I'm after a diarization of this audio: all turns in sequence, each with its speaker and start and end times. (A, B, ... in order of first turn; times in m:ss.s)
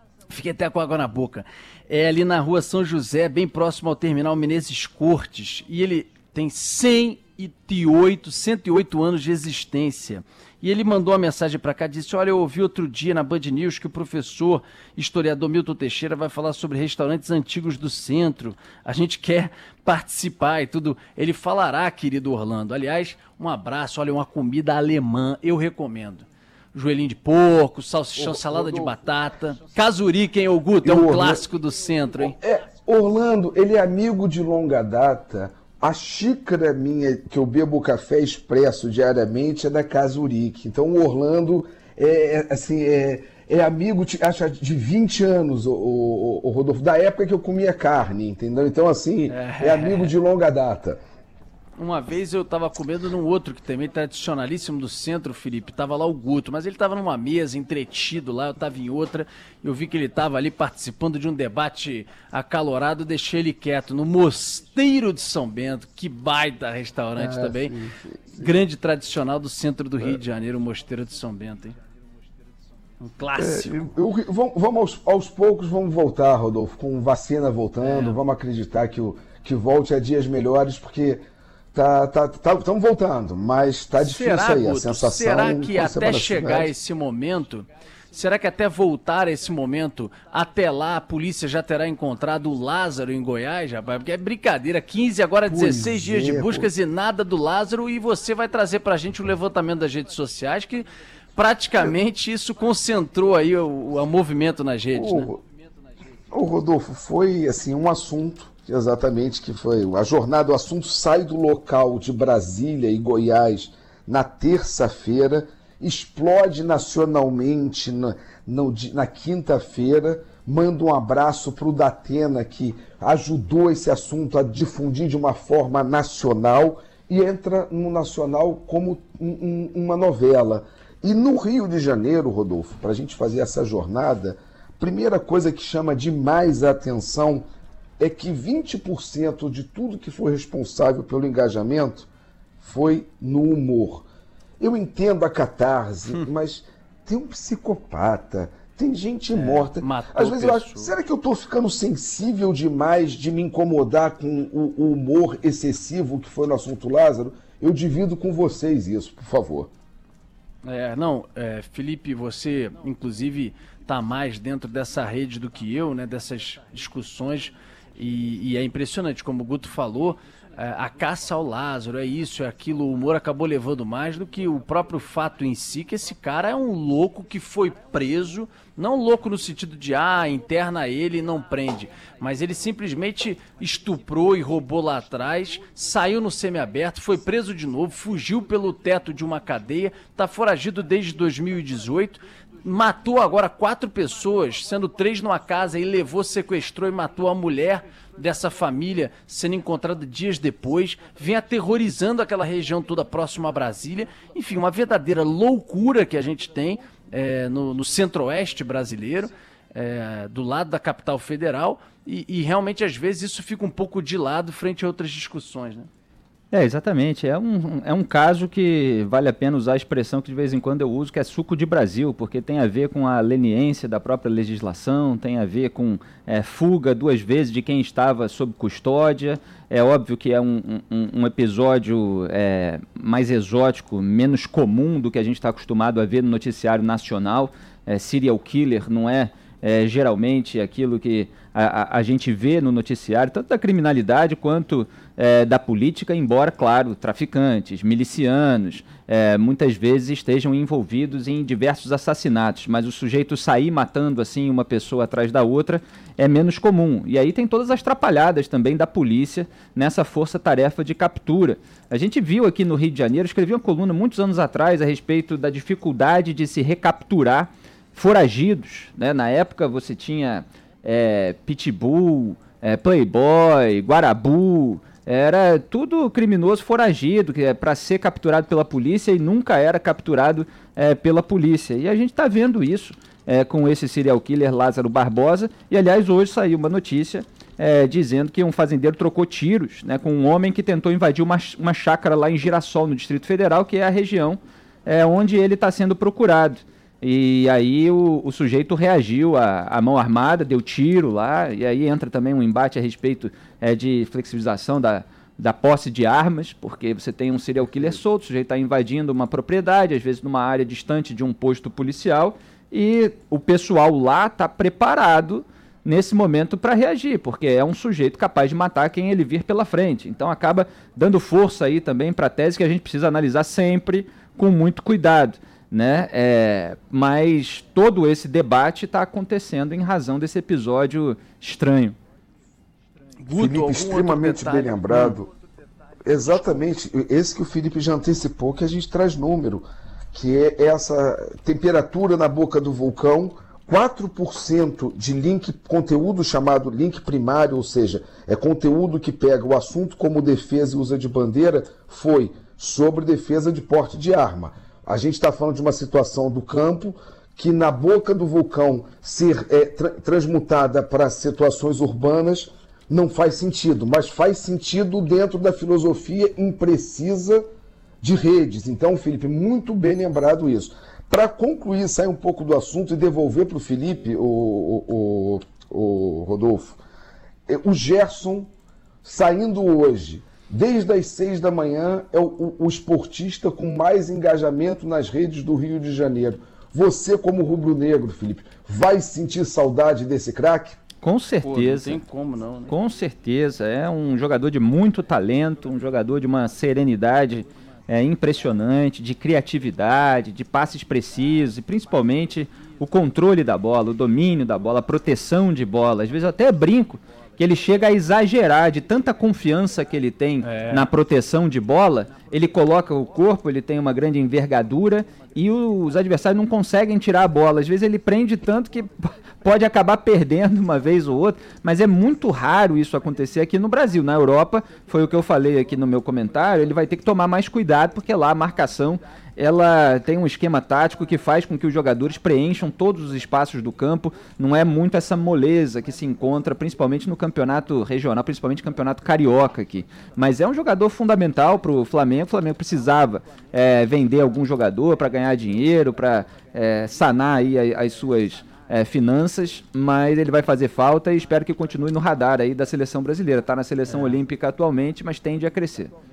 0:00.3-0:32.4 A
0:28.2-0:29.0 B
0:30.8-0:31.4 B
0:32.2-0:51.0 B
0:49.3-0:50.1 A
0:51.8-1:07.8 A
1:07.2-1:08.2 B
1:08.4-1:11.8 A
1:13.0-1:13.9 A
1:13.4-1:21.2 B
1:17.8-1:18.2 A
1:21.7-1:26.7 B
1:24.0-1:45.3 A
1:35.4-1:36.7 B
1:44.9-1:45.4 B
1:46.3-2:17.4 B
2:18.0-2:22.1 B
2:22.6-2:24.0 B
2:24.6-2:39.7 B
2:29.3-2:30.9 A
2:40.6-3:35.9 A
3:36.5-5:32.0 C
5:33.2-5:35.2 A
5:33.3-5:35.3 B
5:36.0-6:07.4 B
6:08.0-6:16.8 B
6:17.5-6:18.5 B
6:19.0-6:30.8 B
6:31.0-6:32.0 C
6:31.4-6:32.7 A
6:32.7-7:35.9 C
6:50.4-6:50.9 A
7:33.8-7:34.2 A